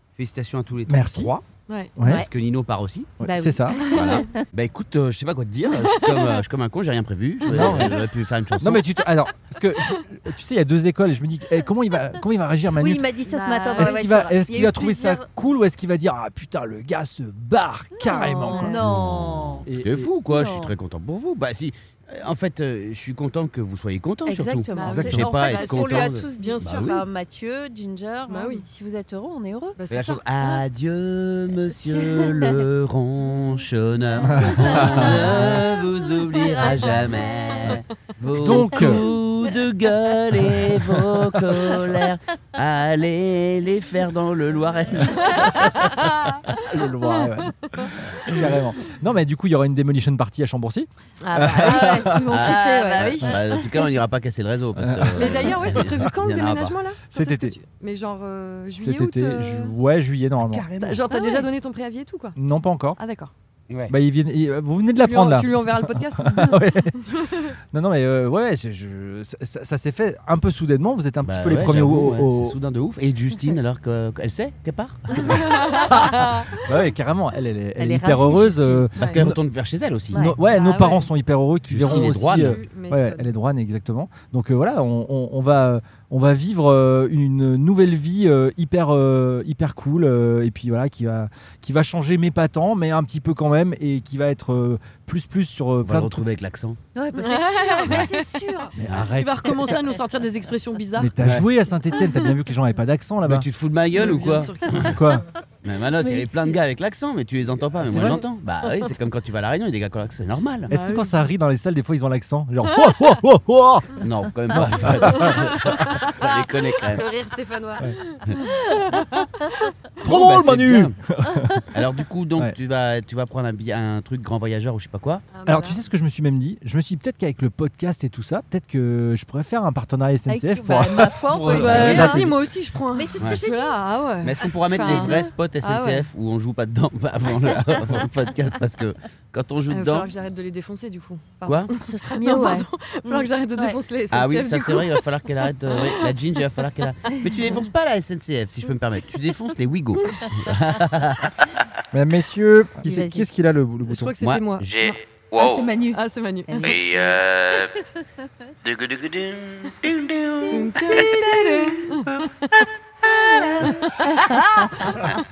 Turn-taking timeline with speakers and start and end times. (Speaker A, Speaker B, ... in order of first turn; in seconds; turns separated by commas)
Speaker A: 0.1-1.4, Speaker B: 0.9-1.3, Speaker C: 1.7-1.9, Speaker B: 2.0-2.2, Speaker D: 2.0-2.3, Speaker A: 2.0-3.1, Speaker B: 3.2-3.9, Speaker D: 3.2-4.4, Speaker C: 3.8-4.2, Speaker A: 3.8-8.8, Speaker C: 5.8-6.4, Speaker C: 7.4-8.0, Speaker B: 7.5-8.0, Speaker B: 8.6-13.1, Speaker D: 12.8-15.4, Speaker C: 13.3-14.1, Speaker B: 13.7-18.9, Speaker D: 17.9-19.7, Speaker C: 18.1-18.8, Speaker A: 18.8-27.0, Speaker B: 19.7-20.1, Speaker D: 20.3-20.7, Speaker D: 24.2-29.8, Speaker C: 24.8-26.9, Speaker B: 24.9-25.2, Speaker C: 28.3-28.6, Speaker C: 29.8-30.2, Speaker A: 29.9-46.5, Speaker D: 31.7-32.6, Speaker B: 34.4-35.4, Speaker D: 34.6-35.3, Speaker D: 36.5-37.0, Speaker B: 38.4-39.0, Speaker B: 40.4-40.8, Speaker C: 45.2-46.4, Speaker B: 46.7-52.1, Speaker C: 47.0-48.4, Speaker C: 51.2-53.4, Speaker D: 51.4-53.6, Speaker A: 52.1-56.8, Speaker B: 54.8-56.1, Speaker C: 55.1-59.7, Speaker B: 57.1-57.5, Speaker B: 58.7-60.6, Speaker A: 60.4-61.1, Speaker C: 60.8-62.4, Speaker D: 61.2-61.4, Speaker B: 62.4-63.0, Speaker C: 63.0-63.3, Speaker A: 63.7-63.9, Speaker B: 63.9-72.6, Speaker C: 65.0-67.5, Speaker A: 71.2-75.8, Speaker C: 75.2-76.6, Speaker B: 75.8-79.4, Speaker D: 77.8-78.9, Speaker A: 79.0-80.3, Speaker D: 80.1-80.4, Speaker B: 80.1-96.2, Speaker C: 80.5-81.1, Speaker A: 81.7-82.6, Speaker C: 81.8-83.3, Speaker A: 95.8-96.8, Speaker D: 96.9-98.7, Speaker C: 97.2-98.5, Speaker B: 98.8-99.8, Speaker A: 98.8-99.1, Speaker C: 99.2-101.1, Speaker B: 101.0-103.5, Speaker A: 101.2-101.5, Speaker C: 102.0-102.3, Speaker A: 103.2-105.0, Speaker C: 103.9-105.2, Speaker B: 104.8-105.2, Speaker A: 105.6-110.7, Speaker D: 106.0-106.6, Speaker B: 107.8-108.2, Speaker C: 108.0-108.9, Speaker B: 110.7-115.5, Speaker C: 110.7-111.2, Speaker C: 112.6-112.9, Speaker A: 114.0-117.0, Speaker C: 115.0-119.7, Speaker A: 120.0-121.0, Speaker B: 120.0-121.7, Speaker A: 121.7-125.2, Speaker C: 125.3-125.8, Speaker B: 125.5-132.3, Speaker D: 130.3-132.3, Speaker A: 131.5-132.2, Speaker C: 131.5-136.1, Speaker D: 132.9-133.8, Speaker A: 134.2-140.1, Speaker D: 134.7-135.3, Speaker C: 139.7-145.0, Speaker A: 141.4-141.7, Speaker D: 141.7-143.8, Speaker A: 144.1-151.6, Speaker C: 145.7-146.4, Speaker B: 151.9-154.1, Speaker D: 152.8-153.3, Speaker C: 153.8-154.9, Speaker A: 154.2-155.7, Speaker D: 155.3-156.8, Speaker C: 155.9-156.8, Speaker A: 156.6-157.8, Speaker A: 158.6-161.2, Speaker D: 160.4-161.8, Speaker C: 160.5-162.6, Speaker A: 163.1-163.7, Speaker D: 163.1-165.0, Speaker C: 163.6-165.0